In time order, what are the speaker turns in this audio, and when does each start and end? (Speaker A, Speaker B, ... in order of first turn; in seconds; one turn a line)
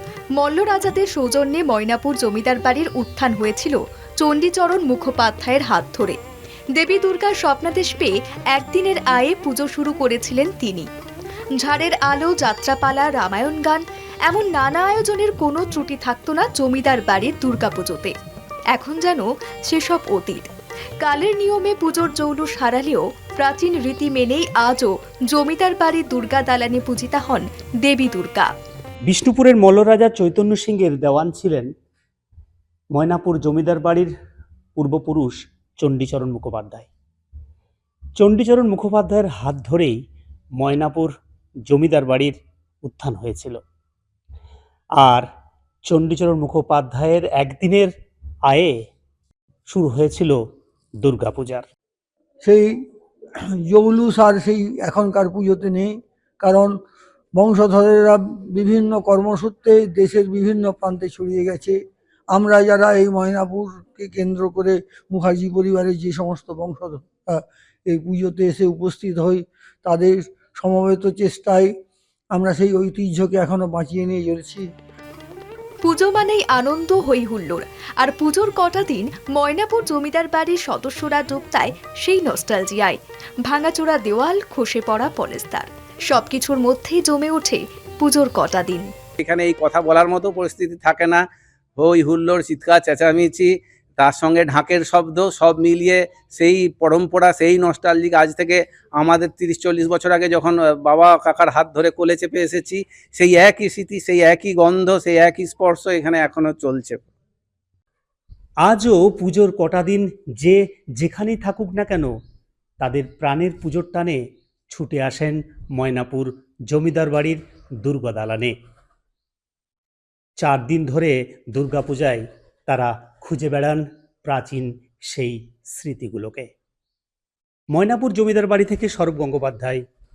Speaker A: 0.4-6.2
Speaker A: 6.7-10.9
Speaker A: 11.5-18.1
Speaker A: 18.7-20.5
Speaker A: 21.0-28.5
Speaker B: 29.1-31.7
Speaker B: 32.9-34.1
Speaker B: 34.8-36.9
Speaker B: 38.2-40.0
Speaker B: 40.6-41.1
Speaker B: 41.7-43.6
Speaker B: 45.0-45.3
Speaker B: 45.9-47.9
Speaker B: 48.5-48.7
Speaker B: 49.7-50.4
Speaker B: 51.0-51.7
Speaker C: 52.4-52.8
Speaker C: 53.6-56.8
Speaker C: 57.3-61.8
Speaker C: 62.3-71.7
Speaker C: 72.3-74.7
Speaker A: 75.8-88.9
Speaker D: 89.2-91.2
Speaker D: 91.8-107.0
Speaker B: 108.6-112.1
Speaker B: 112.8-118.5
Speaker B: 120.4-126.5
Speaker B: 127.7-129.8